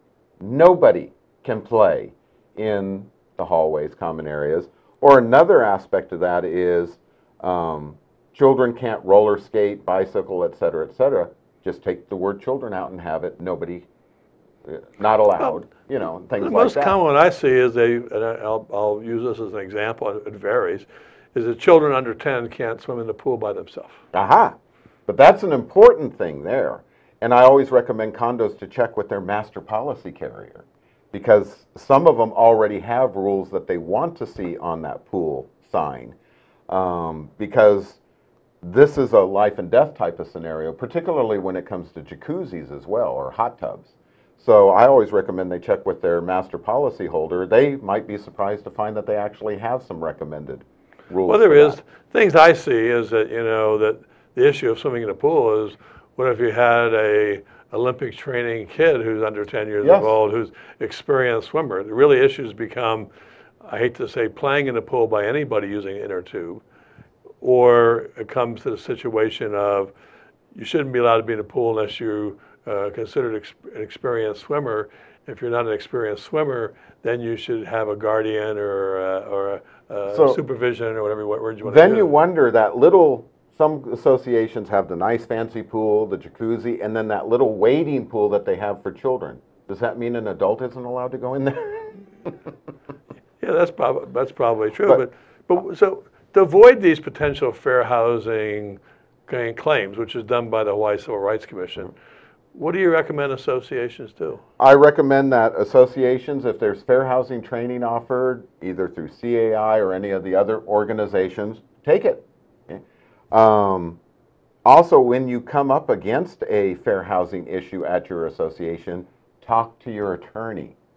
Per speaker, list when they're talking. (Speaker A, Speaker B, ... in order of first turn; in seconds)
Speaker A: 0.4-13.9, 14.6-16.9, 24.1-36.1, 36.7-38.0, 38.6-51.8, 59.8-60.1, 80.1-80.4, 81.6-92.4, 104.6-114.0, 114.6-120.8
Speaker B: 16.4-24.0, 51.3-63.1, 63.6-66.6, 67.4-69.9, 70.5-82.1, 93.4-101.9, 102.5-104.4